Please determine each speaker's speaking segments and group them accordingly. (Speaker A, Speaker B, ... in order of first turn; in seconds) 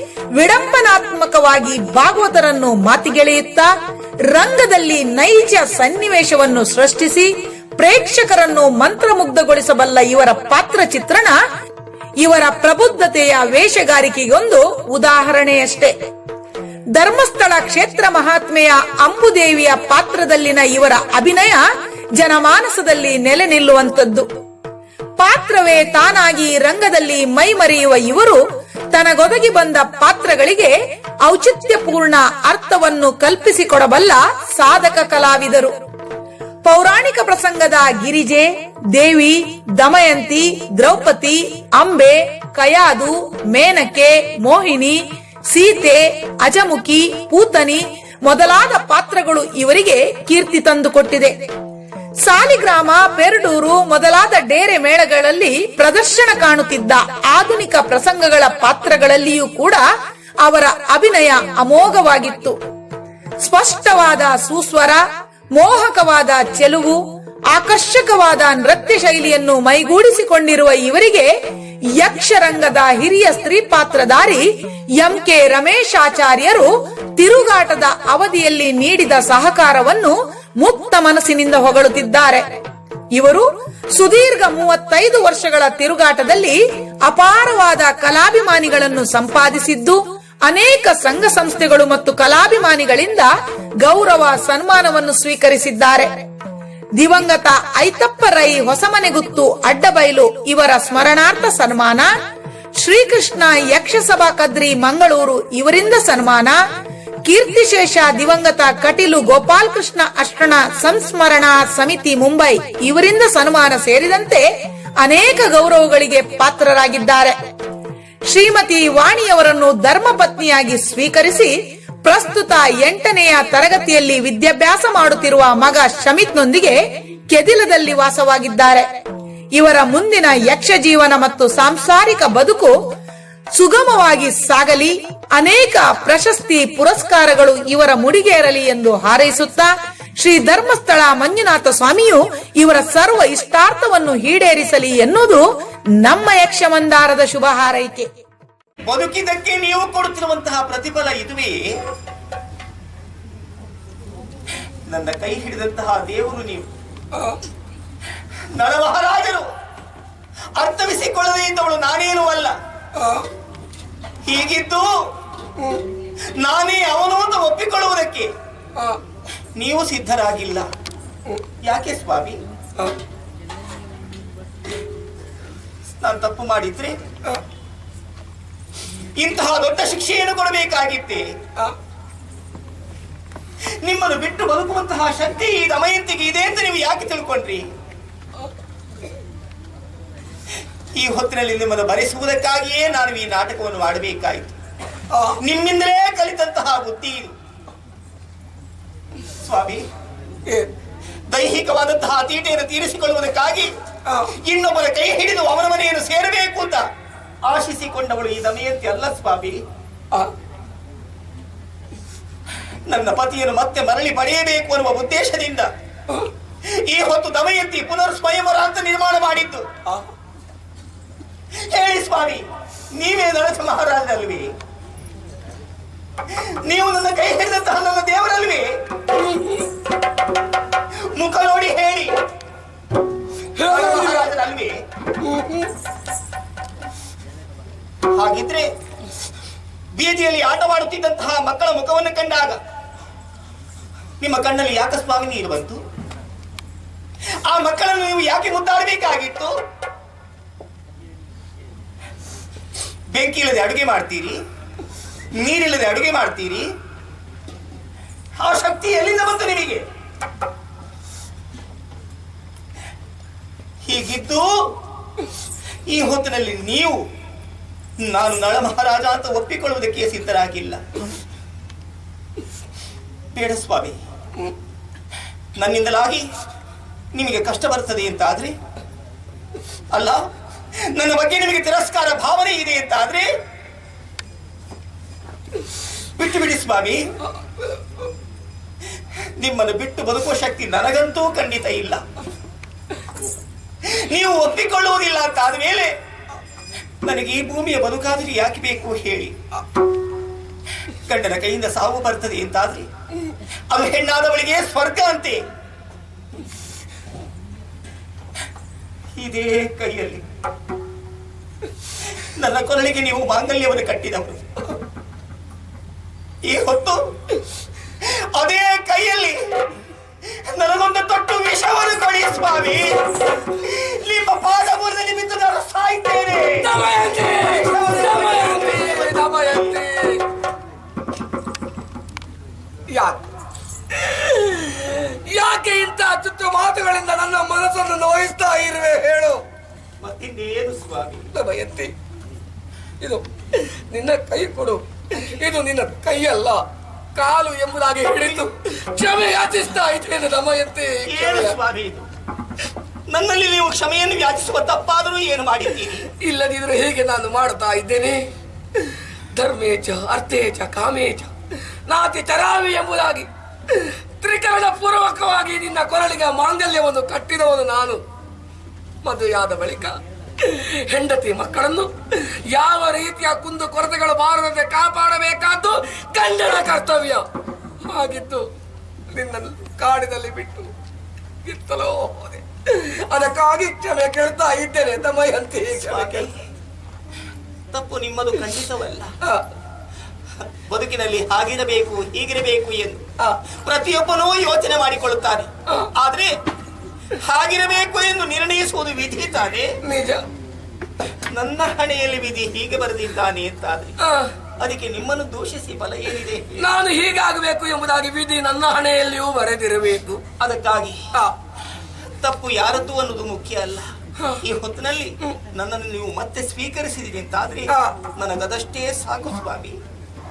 Speaker A: 0.4-3.7, 4.3-11.4, 12.2-15.9, 16.9-21.6, 22.2-24.3, 25.2-28.4, 28.9-30.7, 31.2-35.8, 36.6-45.0, 45.5-51.5, 52.2-59.8, 60.4-62.6, 63.4-65.0, 65.5-67.0, 67.5-71.3, 72.0-74.5, 75.0-82.6, 83.1-93.3, 93.8-96.3, 97.0-102.1, 102.8-106.6, 107.3-114.5, 115.0-117.4, 118.3-126.8, 127.3-129.0, 129.6-132.7, 133.5-145.4, 146.0-148.1
Speaker B: 148.9-151.6, 154.9-156.7, 158.6-159.5, 160.6-162.5, 164.2-164.9, 166.4-168.3, 169.6-170.7, 171.6-172.4, 176.0-177.0, 179.2-181.3, 183.8-187.7, 190.9-194.6, 195.4-197.3, 199.4-199.9, 201.3-203.7, 204.3-206.8, 207.4-209.6, 212.9-215.7, 216.7-219.7, 221.7-224.5, 226.3-228.8, 231.1-232.2, 233.6-234.8, 238.1-238.7, 239.9-242.6, 244.2-245.8, 247.5-249.5, 253.1-254.4, 255.3-256.7, 258.4-259.8, 263.9-264.7, 265.9-267.0, 268.0-270.8, 273.3-274.0, 275.6-276.2, 277.1-278.6, 279.9-280.2, 280.9-283.3, 286.2-287.0, 289.4-292.0, 293.8-295.9, 297.0-299.4, 301.1-302.9, 303.7-305.4, 309.2-310.2, 312.4-314.6, 316.4-317.0, 318.0-319.4, 320.5-326.7, 327.4-329.8, 340.0-341.3, 348.2-348.5, 351.1-352.1, 353.1-356.1, 385.7-386.4, 387.7-389.1, 390.7-396.4, 397.2-399.7, 401.3-404.0, 404.6-406.7, 410.4-411.0, 412.2-413.9, 414.4-419.8
Speaker C: 157.1-157.4, 163.0-163.3, 195.1-195.4, 204.1-204.3, 229.2-229.7, 233.6-234.3, 235.2-235.7, 287.6-288.0, 326.6-330.2, 332.9-333.2, 333.9-339.4, 341.3-341.9, 343.0-346.6, 347.1-351.5, 356.2-361.3, 361.9-368.0, 369.0-377.3, 377.9-378.5, 379.1-380.7, 381.4-386.3, 399.9-400.2, 404.0-404.3, 406.6-410.4, 417.7-417.9